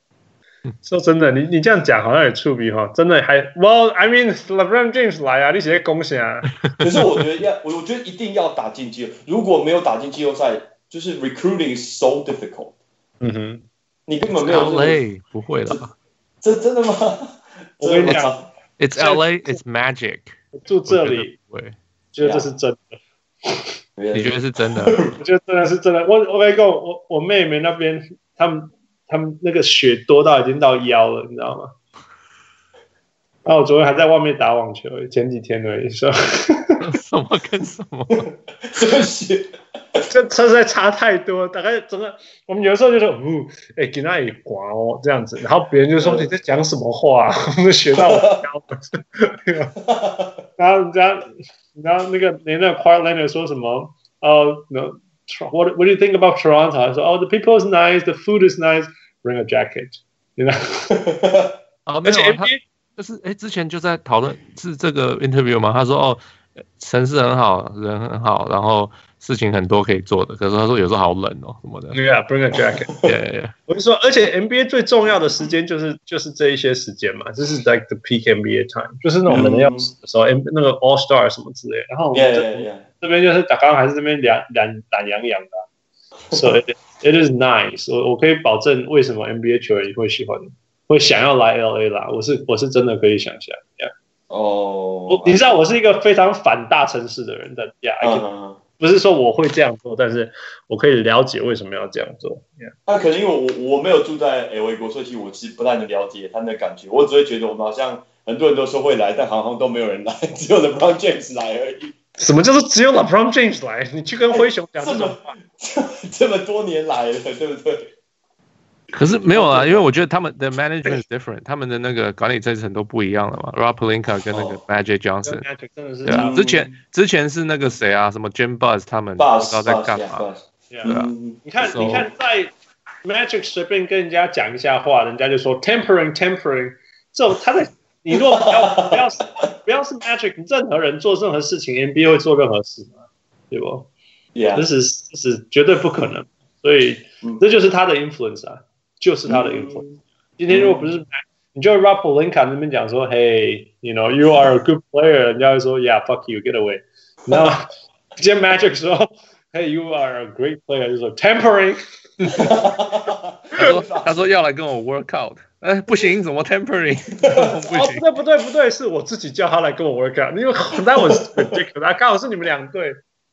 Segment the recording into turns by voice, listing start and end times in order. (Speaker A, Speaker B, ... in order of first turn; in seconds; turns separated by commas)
Speaker A: 0.8-6.5, Speaker B: 6.8-12.7, Speaker A: 13.2-13.6, Speaker B: 14.1-15.0, Speaker C: 14.4-15.9, Speaker B: 16.4-18.5, Speaker A: 17.8-18.4, Speaker C: 18.8-20.3, Speaker A: 18.9-19.2, Speaker A: 20.5-21.3, Speaker C: 20.9-21.8, Speaker A: 22.1-23.6, Speaker B: 22.2-22.5, Speaker B: 24.0-25.2, Speaker C: 24.1-25.0, Speaker A: 25.2-31.7, Speaker A: 33.5-36.8, Speaker C: 36.8-38.3, Speaker B: 38.7-40.0, Speaker A: 40.1-49.8, Speaker B: 46.0-46.3, Speaker B: 47.9-48.4, Speaker B: 49.8-50.4, Speaker A: 50.6-60.9, Speaker B: 60.9-61.5, Speaker C: 61.9-66.2, Speaker A: 62.0-62.6, Speaker C: 66.8-72.0, Speaker A: 71.9-73.0, Speaker C: 73.0-73.5, Speaker A: 73.7-85.6, Speaker B: 79.3-79.9, Speaker B: 82.1-82.8, Speaker A: 86.3-93.9, Speaker B: 94.3-95.5, Speaker A: 95.1-98.2, Speaker B: 98.0-98.6, Speaker A: 98.8-102.7, Speaker B: 102.8-111.9, Speaker A: 112.2-115.3, Speaker B: 114.3-117.9, Speaker C: 118.9-125.5, Speaker B: 119.0-119.9, Speaker B: 124.3-124.6, Speaker A: 125.2-126.3, Speaker C: 126.0-130.2, Speaker B: 126.1-126.7, Speaker B: 129.2-132.1, Speaker C: 130.8-132.1, Speaker A: 131.4-143.9, Speaker B: 138.2-139.0, Speaker B: 144.3-144.7, Speaker A: 144.5-149.8, Speaker B: 149.2-150.9, Speaker A: 150.4-162.6, Speaker B: 162.3-164.3, Speaker C: 163.6-168.1, Speaker B: 167.2-167.5, Speaker A: 167.7-173.0, Speaker B: 170.9-171.5